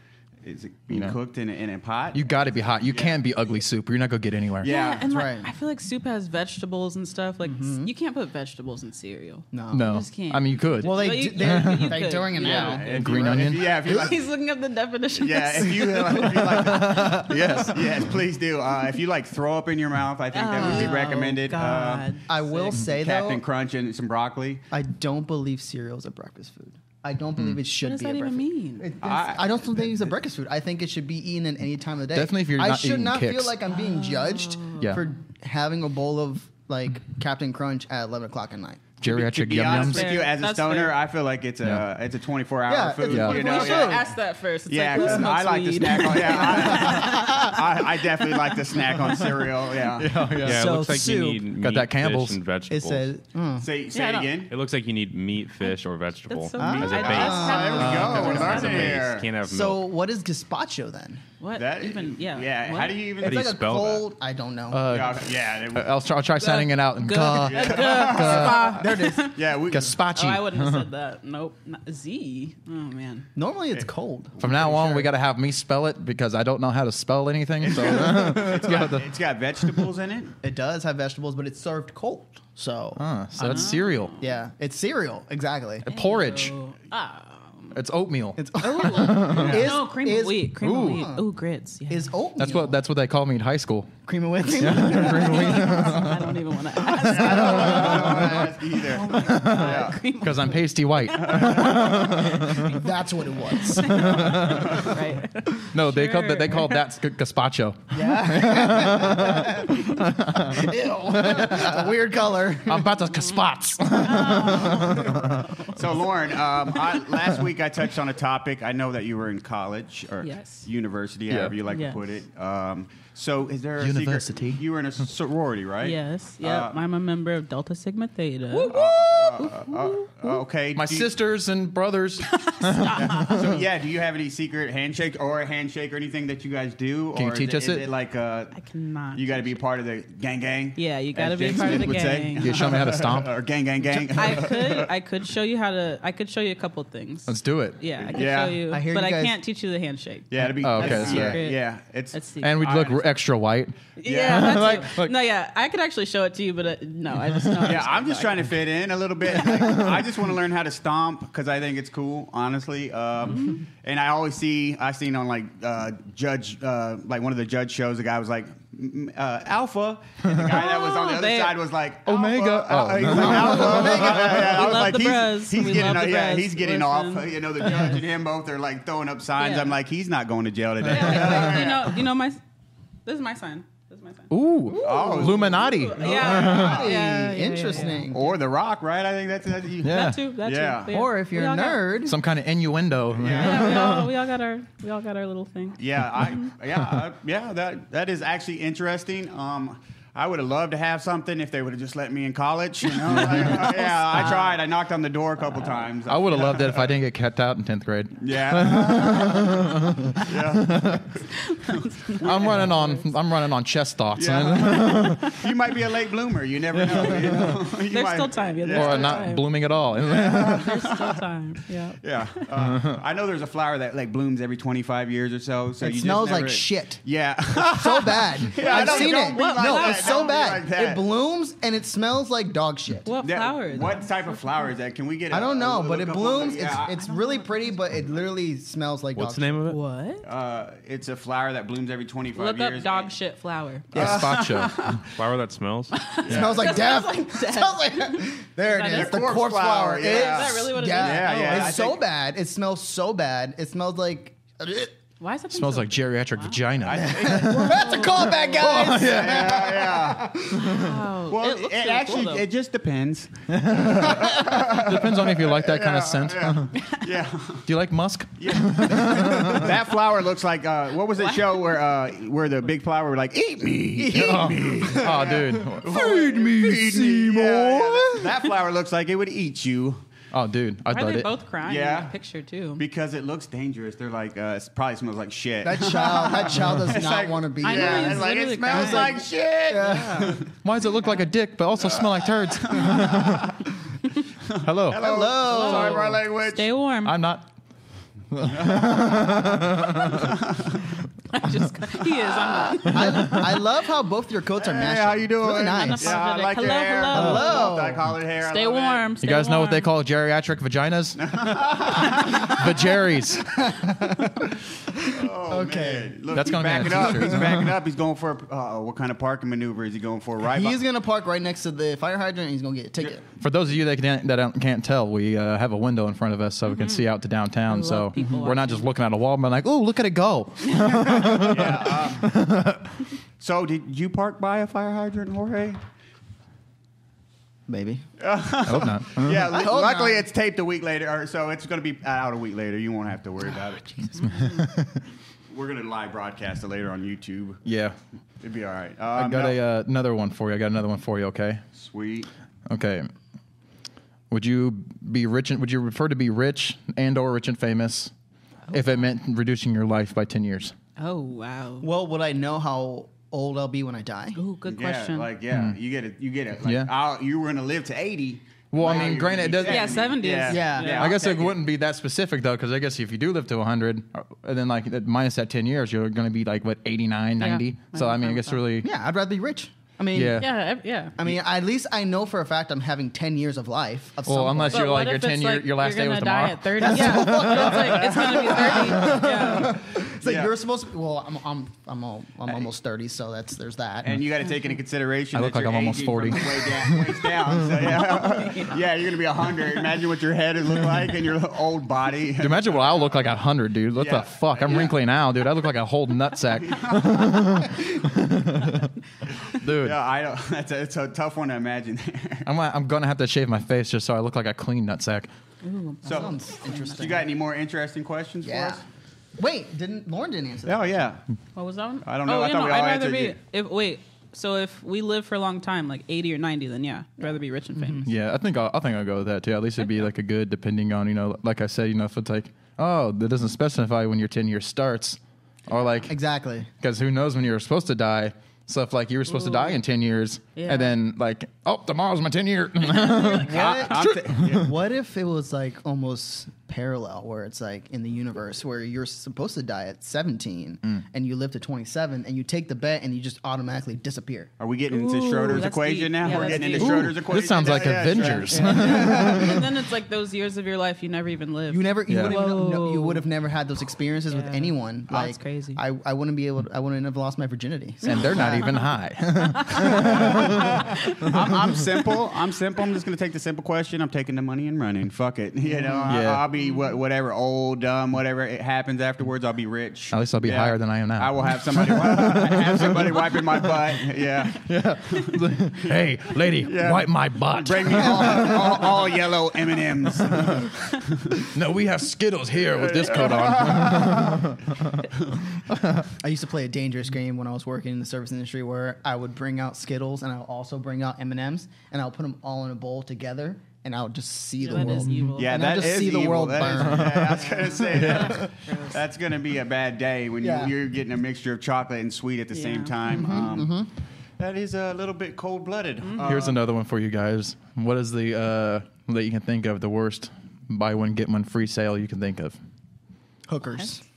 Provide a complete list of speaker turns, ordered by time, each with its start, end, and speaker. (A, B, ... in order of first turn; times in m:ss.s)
0:00.4-0:03.2 A
0:02.1-0:04.7 B
0:04.6-0:05.1 A
0:04.6-0:17.1 C
0:05.0-0:05.5 D
0:07.4-0:07.9 D
0:09.5-0:09.9 D
0:09.7-0:12.1 B
0:10.8-0:14.1 D
0:12.3-0:14.2 A
0:12.7-0:13.7 B
0:15.2-0:22.1 A
0:16.5-0:18.1 B
0:20.3-0:22.6 C
0:20.6-0:21.1 D
0:22.3-0:23.4 D
0:22.7-0:24.6 A
0:24.7-0:38.8 D
0:27.8-0:28.9 C
0:29.0-0:29.5 A
0:32.1-0:33.5 B
0:33.7-0:34.8 C
0:39.0-0:40.1 B
0:39.0-0:44.1 A
0:39.6-0:41.0 C
0:42.7-0:44.1 D
0:43.1-0:43.4 B
0:43.1-0:47.6 C
0:44.7-0:50.3 A
0:44.9-0:45.3 D
0:45.9-0:47.7 D
0:49.9-0:50.8 B
0:50.4-0:53.1 E
0:50.4-0:51.5 D
0:51.6-0:52.4 B
0:52.7-0:53.7 D
0:53.6-0:54.5 A
0:53.9-0:54.4 C
0:54.5-0:59.8 E
0:56.3-0:59.1 C
0:56.6-0:58.7 D
0:56.6-0:59.3 A
0:57.8-0:58.7 B
0:59.4-1:01.2 D
1:01.4-1:03.1 C
1:01.6-1:03.6 A
1:03.2-1:04.1 E
1:03.2-1:04.8 D
1:04.7-1:08.7 B
1:04.8-1:05.9 A
1:06.4-1:09.4 C
1:07.5-1:08.8 A
1:07.9-1:09.3 D
1:09.3-1:10.0 A
1:09.7-1:10.8 B
1:10.1-1:13.3 C
1:13.4-1:15.1 D
1:14.4-1:19.1 B
1:17.6-1:20.3 A
1:20.4-1:25.9 D
1:23.0-1:24.1 B
1:23.4-1:24.3 C
1:25.8-1:26.5 B
1:25.8-1:27.7 C
1:27.7-1:29.7 B
1:28.4-1:31.3 D
1:28.6-1:32.1 C
1:29.3-1:29.7 A
1:30.6-1:31.0 B
1:31.9-1:32.8 D
1:32.4-1:33.9 B
1:34.0-1:36.0 D
1:34.5-1:36.2 B
1:34.7-1:42.7 C
1:36.9-1:38.5 B
1:37.0-1:40.0 A
1:37.4-1:38.2 D
1:39.0-1:42.7 B
1:41.1-1:42.3 A
1:42.5-1:45.0 D
1:43.6-1:46.8 C
1:43.9-1:44.9 B
1:45.7-1:51.9 B
1:47.9-1:53.0 D
1:52.6-1:55.4 B
1:53.9-1:55.9 C
1:55.7-2:06.8 A
2:00.2-2:00.7 C
2:01.3-2:01.5 B
2:01.7-2:02.0 C
2:03.8-2:04.6 B
2:05.8-2:10.4 C
2:08.7-2:11.1 A
2:10.7-2:13.6 B
2:12.3-2:13.5 C
2:12.9-2:18.6 A
2:17.1-2:17.9 B
2:18.5-2:19.4 C
2:19.1-2:24.9 A
2:20.8-2:23.0 C
2:22.4-2:24.3 B
2:24.1-2:32.6 C
2:27.2-2:27.8 B
2:28.0-2:28.6 A
2:28.6-2:29.4 D
2:30.3-2:33.0 A
2:30.5-2:31.4 B
2:32.4-2:35.1 B
2:34.0-2:38.6 C
2:34.0-2:34.7 A
2:37.4-2:37.7 B
2:37.6-3:02.0 A
2:39.5-2:40.0 B
2:43.2-2:43.6 C
2:50.3-2:51.6 C
2:52.0-2:54.6 B
2:53.6-2:57.9 C
2:53.6-2:54.2 D
2:59.4-2:59.8 C
3:00.8-3:01.5 B
3:00.9-3:02.4 C
3:03.0-3:08.1 C
3:04.3-3:06.9 B
3:04.8-3:06.9 A
3:06.0-3:08.3 D
3:08.1-3:10.9 A
3:09.8-3:10.2 B
3:09.9-3:12.0 C
3:10.9-3:12.2 D
3:12.0-3:14.1 B
3:13.1-3:13.9 A
3:13.3-3:16.4 C
3:15.8-3:26.9 A
3:23.0-3:24.6 C
3:26.0-3:31.1 B
3:28.2-3:31.2 A
3:31.5-3:33.1 C
3:32.2-3:35.4 B
3:32.2-3:32.5 A
3:34.2-3:39.4 A
3:36.7-3:37.6 B
3:37.9-3:42.4 C
3:38.7-3:40.8 B
3:40.0-3:41.2 A
3:42.0-3:51.0 A
3:42.6-3:43.0 B
3:45.8-3:53.1 D
3:48.6-3:50.5 C
3:53.0-3:54.4 C
3:53.2-3:56.9 A
3:55.3-3:59.6 D
3:56.7-3:58.1 C
3:59.2-3:59.8 E
3:59.6-4:00.2 C
4:00.2-4:03.1 A
4:02.3-4:03.9 C
4:03.9-4:05.0 A
4:03.9-4:05.0 B
4:05.1-4:06.0 E
4:05.9-4:09.4 C
4:06.2-4:06.8 A
4:06.2-4:14.9 D
4:08.8-4:12.0 A
4:10.0-4:11.8 C
4:15.2-4:16.7 C
4:15.5-4:19.6 B
4:16.8-4:17.9 A
4:16.9-4:20.9 D
4:17.5-4:18.9 C
4:18.8-4:27.6 A
4:20.6-4:22.5 C
4:23.5-4:26.8 B
4:27.6-4:29.7 B
4:28.4-4:40.0 A
4:31.2-4:31.7 C
4:33.9-4:38.4 D
4:34.1-4:37.8 B
4:40.3-4:41.3 B
4:40.9-4:42.8 C
4:41.6-4:42.1 A
4:42.8-4:50.5 A
4:45.6-4:50.4 D
4:47.6-4:50.4 C
4:50.6-4:53.5 B
4:51.8-4:53.7 A
4:54.5-4:56.7 A
4:54.6-4:55.0 B
4:54.9-4:56.2 D
4:55.4-4:57.2 C
4:57.0-4:57.5 B
4:58.3-5:00.4 B
4:58.5-5:00.8 A
5:01.3-5:03.6 C
5:02.8-5:08.1 D
5:04.6-5:09.1 A
5:05.7-5:07.9 C
5:08.4-5:09.9 C
5:09.2-5:13.7 B
5:11.2-5:12.9 A
5:13.5-5:17.6 D
5:15.0-5:20.8 A
5:16.3-5:17.7 B
5:20.4-5:23.2 D
5:23.4-5:33.0 B
5:26.7-5:27.1 C
5:27.6-5:28.9 C
5:31.1-5:32.3 A
5:33.4-5:35.8 A
5:37.7-5:38.0 D
5:38.2-5:44.6 A
5:38.6-5:39.5 B
5:39.4-5:40.3 D
5:44.1-5:44.5 C
5:44.4-5:44.9 B
5:45.5-5:47.6 A
5:47.6-5:47.9 B
5:48.4-5:49.6 A
5:49.1-5:51.6 B
5:51.7-5:52.3 A
5:52.7-5:53.1 B
5:54.3-5:58.1 B
5:58.7-5:59.1 C
5:58.7-6:00.7 B
6:01.0-6:01.9 C
6:01.8-6:04.4 D
6:04.4-6:05.3 C
6:04.7-6:11.6 A
6:05.5-6:05.8 B
6:06.6-6:06.9 B
6:08.7-6:10.0 B
6:08.8-6:11.2 C
6:10.4-6:11.1 D
6:10.9-6:18.9 B
6:17.4-6:18.6 C
6:18.8-6:20.5 D
6:20.1-6:20.5 B
6:20.4-6:21.2 C
6:21.2-6:25.0 D
6:24.2-6:28.0 B
6:24.7-6:29.8 C
6:26.8-6:34.2 D
6:29.0-6:29.2 B
6:29.5-6:30.5 A
6:34.0-6:43.1 A
6:35.3-6:37.6 B
6:38.0-6:38.8 C
6:42.4-6:48.9 B
6:44.0-6:45.0 A
6:46.5-6:47.6 A
6:49.5-6:52.5 A
6:49.5-6:50.0 B
6:52.4-6:55.3 B
6:55.6-6:57.2 C
6:56.0-6:57.3 D
6:56.0-6:56.4 A
6:56.9-6:58.8 A
6:58.4-6:58.8 D
6:59.4-7:01.0 D
7:00.6-7:01.2 A
7:01.5-7:08.0 C
7:02.0-7:03.4 A
7:07.8-7:08.1 D
7:08.0-7:16.2 B
7:16.1-7:16.7 D
7:16.8-7:24.7 B
7:19.3-7:19.8 C
7:20.6-7:20.9 C
7:23.0-7:23.3 C
7:23.0-7:34.5 D
7:23.4-7:24.7 A
7:34.6-7:38.6 A
7:34.9-7:37.2 C
7:36.2-7:36.8 D
7:36.8-7:39.6 B
7:38.4-7:39.7 D
7:38.5-7:43.2 C
7:41.7-7:48.7 D
7:42.1-7:42.4 B
7:44.3-7:45.8 C
7:48.0-7:51.3 B
7:48.1-7:48.8 C
7:49.6-7:51.3 C
7:49.9-8:05.4 A
7:56.1-7:56.5 B
8:00.1-8:03.9 B
8:04.5-8:08.9 B
8:06.5-8:11.5 A
8:08.2-8:08.7 D
8:11.5-8:15.0 B
8:12.7-8:14.5 A
8:15.7-8:16.1 B
8:16.2-8:28.4 D
8:24.6-8:25.8 C
8:24.9-8:25.3 B
8:25.3-8:33.8 A
8:26.6-8:28.4 B
8:27.4-8:29.0 C
8:30.4-8:30.7 D
8:32.5-8:33.3 C
8:33.1-8:33.9 D
8:34.4-8:36.6 A
8:36.0-8:36.5 C
8:36.2-8:42.6 B
8:43.5-8:44.0 D